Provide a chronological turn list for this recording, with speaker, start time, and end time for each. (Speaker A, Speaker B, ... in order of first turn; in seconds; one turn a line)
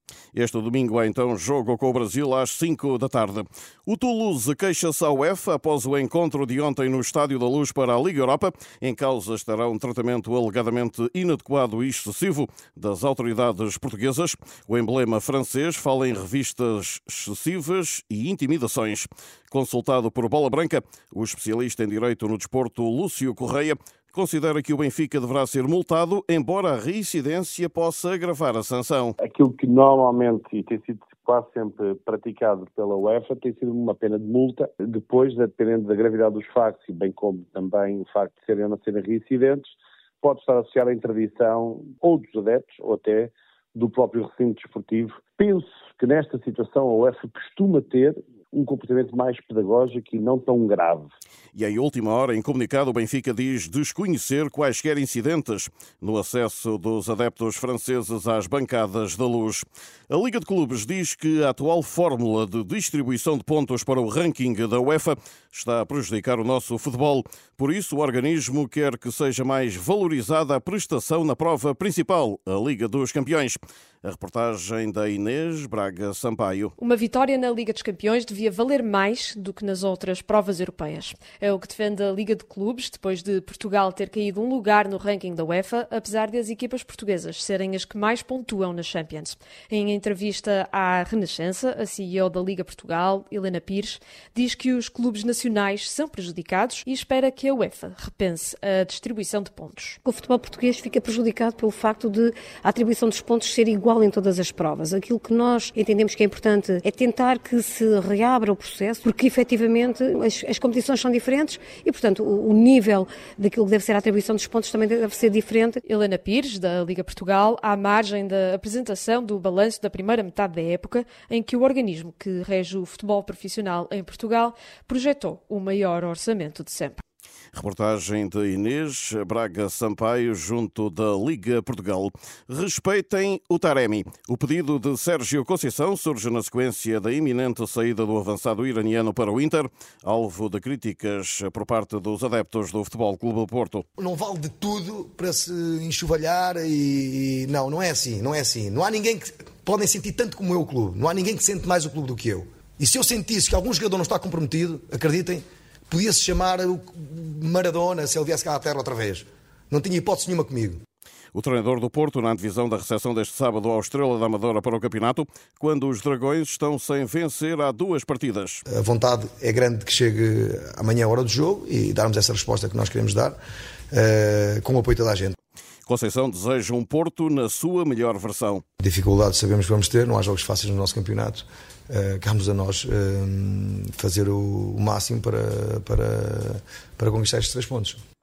Speaker A: 0.3-29.1
Speaker B: 29.2-51.1
Speaker A: 51.5-76.8
Speaker C: 76.8-100.0
Speaker D: 100.0-115.8
Speaker C: 115.8-127.0
Speaker A: 127.5-143.8
Speaker E: 144.0-160.8
Speaker A: 161.3-168.6
Speaker E: 168.7-173.4
Speaker E: 173.9-175.3
Speaker A: 175.9-178.6
Speaker E: 178.8-188.0